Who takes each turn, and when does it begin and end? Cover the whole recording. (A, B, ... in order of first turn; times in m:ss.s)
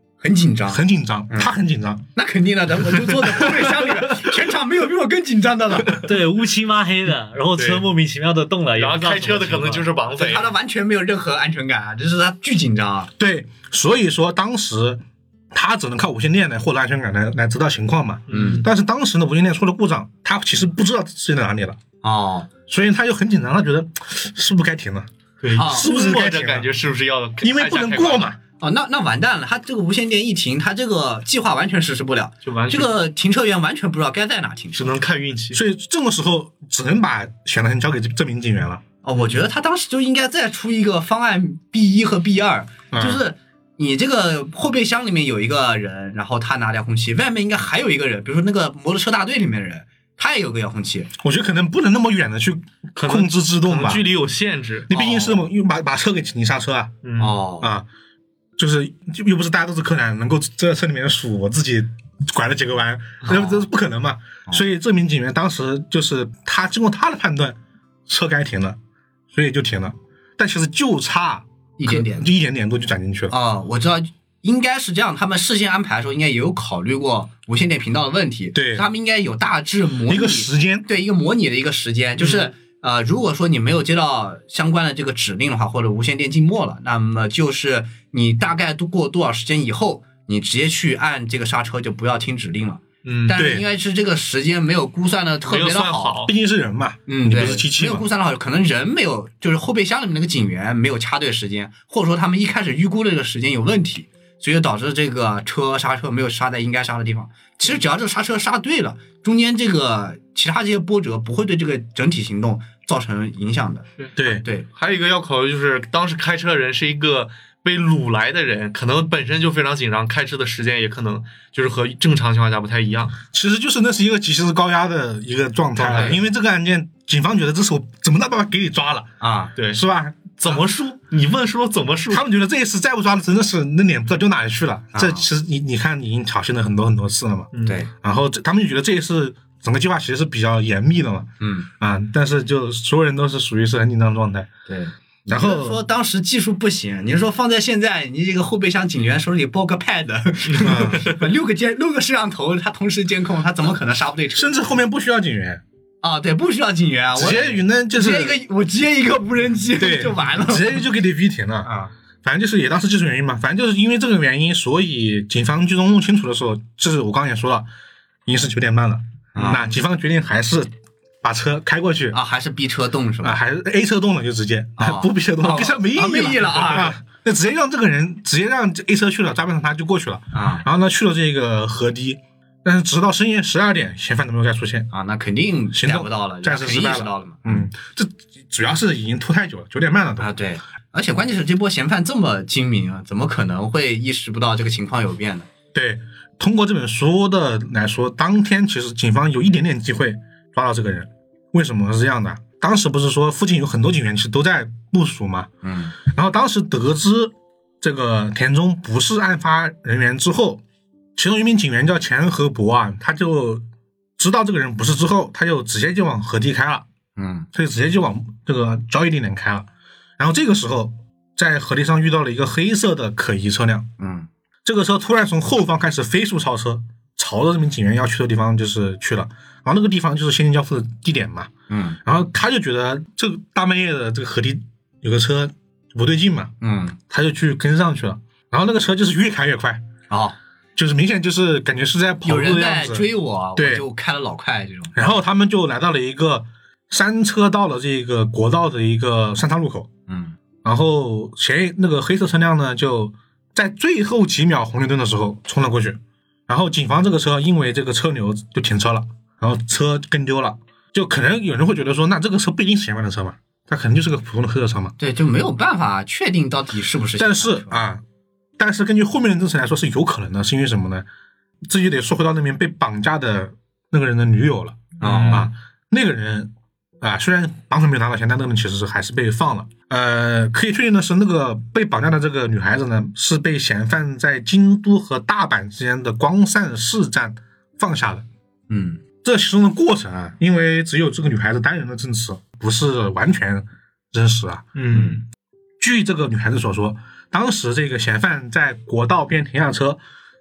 0:00.2-0:01.5 A
0:00.7-0:02.0 B
0:02.1-0:06.0 A
0:05.9-0:09.9 C
0:07.6-0:07.8 D
0:08.7-0:10.5 D
0:10.1-0:13.1 A
0:13.2-0:21.8 B
0:18.3-0:18.7 D
0:18.3-0:18.6 A
0:22.0-0:22.5 A
0:22.7-0:26.7 B
0:25.4-0:28.3 D
0:25.5-0:25.9 A
0:27.4-0:28.4 B
0:28.6-0:34.9 A
0:32.4-0:32.9 D
0:34.7-0:35.6 D
0:35.5-0:38.8 B
0:39.0-0:51.1 A
0:39.2-0:39.4 D
0:42.9-0:43.2 B
0:51.2-0:54.1 B
0:53.0-0:54.9 D
0:54.9-0:57.0 B
0:54.9-0:55.5 A
0:57.0-0:57.3 D
0:57.2-0:57.7 A
0:57.6-0:57.9 B
0:58.6-1:08.8 B
1:03.3-1:03.6 A
1:09.3-1:13.3 B
1:11.8-1:12.3 A
1:13.3-1:36.2 A
1:18.5-1:18.8 B
1:20.1-1:20.9 B
1:33.0-1:33.4 D
1:33.3-1:33.6 B
1:35.4-1:36.3 D
1:36.2-1:38.0 B
1:37.1-1:54.7 A
1:54.2-1:54.4 B
1:54.7-2:03.2 D
2:03.3-2:09.1 B
2:05.8-2:06.2 D
2:05.9-2:06.2 A
2:09.2-2:09.5 A
2:09.6-2:09.8 D
2:09.6-2:10.6 B
2:10.4-2:12.2 D
2:12.1-2:24.5 B
2:14.9-2:15.3 A
2:17.5-2:17.8 D
2:17.6-2:17.9 A
2:21.4-2:21.7 A
2:24.7-2:34.6 A
2:25.3-2:25.8 B
2:30.5-2:31.1 D
2:30.6-2:31.0 B
2:34.3-2:35.6 B
2:36.0-2:40.8 A
2:37.2-2:38.4 B
2:39.8-2:41.7 B
2:41.6-2:41.9 A
2:42.2-2:47.7 B
2:48.2-2:50.7 B
2:49.3-2:49.7 A
2:51.2-2:52.2 B
2:52.1-2:53.4 A
2:53.2-3:04.9 B
2:54.8-2:57.0 A
3:00.3-3:00.6 A
3:04.9-3:07.7 A
3:05.7-3:10.4 B
3:10.2-3:15.5 A
3:15.7-3:30.6 B
3:25.6-3:26.0 A
3:31.2-3:33.6 B
3:34.2-3:36.8 B
3:37.2-3:37.5 A
3:37.5-3:43.9 B
3:44.0-3:44.3 A
3:44.6-3:51.5 B
3:51.7-3:52.0 A
3:52.0-3:56.5 B
3:56.6-3:57.0 A
3:57.1-3:59.8 B
4:00.1-4:00.4 A
4:00.8-4:03.8 B
4:02.2-4:04.9 A
4:04.9-4:09.9 B
4:10.1-4:10.4 A
4:10.6-4:24.9 B
4:25.0-4:27.8 A
4:27.2-4:28.0 B
4:28.6-4:31.0 B
4:31.6-4:48.2 B
4:35.0-4:35.5 A
4:35.0-4:35.4 D
4:48.7-4:49.0 A
4:49.2-4:54.7 B
4:54.7-4:55.2 D
4:54.9-4:55.2 A
4:55.8-5:00.0 B